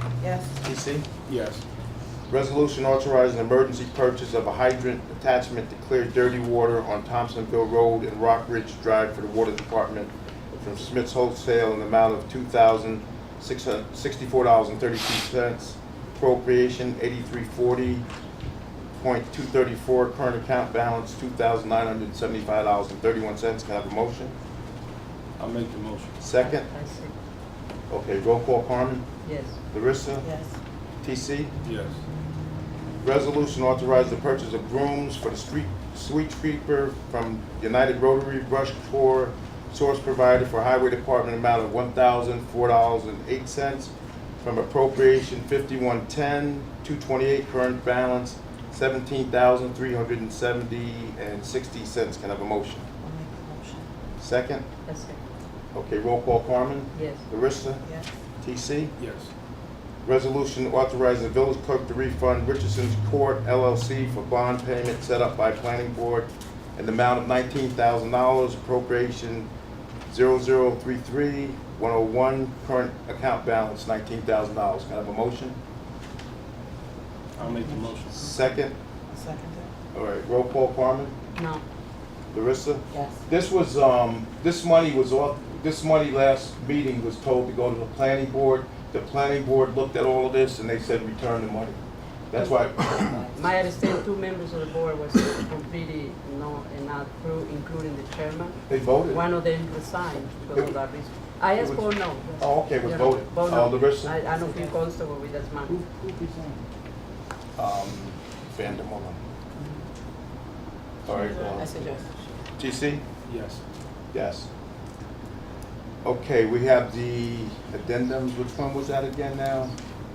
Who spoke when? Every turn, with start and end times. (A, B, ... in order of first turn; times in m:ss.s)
0:00.2-0:00.5 A
0:00.6-0:01.1 B
0:01.3-0:01.6 C
0:02.3-0:18.1 B
0:19.0-0:24.4 B
0:25.4-0:26.1 C
0:26.2-0:26.7 B
0:26.4-0:27.1 D
0:27.9-0:29.1 B
0:29.2-0:29.6 D
0:29.7-0:30.3 B
0:30.2-0:30.6 A
0:31.0-0:31.5 B
0:31.6-0:32.0 C
0:33.0-0:52.9 B
0:53.0-0:53.9 A
0:54.2-0:54.7 B
0:54.9-0:55.2 D
0:55.7-0:57.8 B
0:56.9-0:57.2 D
0:57.8-0:58.1 A
0:58.4-0:58.9 B
0:59.0-0:59.3 C
1:00.0-1:09.5 B
1:10.1-1:15.6 B
1:17.4-1:18.3 C
1:17.4-1:18.3 A
1:18.1-1:18.7 B
1:19.1-1:19.7 A
1:19.9-1:21.2 B
1:21.4-1:21.6 D
1:22.3-1:31.8 B
1:22.9-1:23.2 A
1:32.3-1:33.3 B
1:33.1-1:33.4 A
1:33.3-1:45.8 D
1:38.7-1:39.2 B
1:41.5-1:44.2 B
1:44.4-1:44.8 A
1:45.7-1:46.6 B
1:47.6-1:49.2 B
1:51.1-1:51.8 B
1:51.2-1:52.1 A
1:51.6-1:52.1 D
1:52.6-1:53.0 B
1:53.2-1:53.6 C
1:54.1-1:54.5 B
1:56.0-1:59.7 B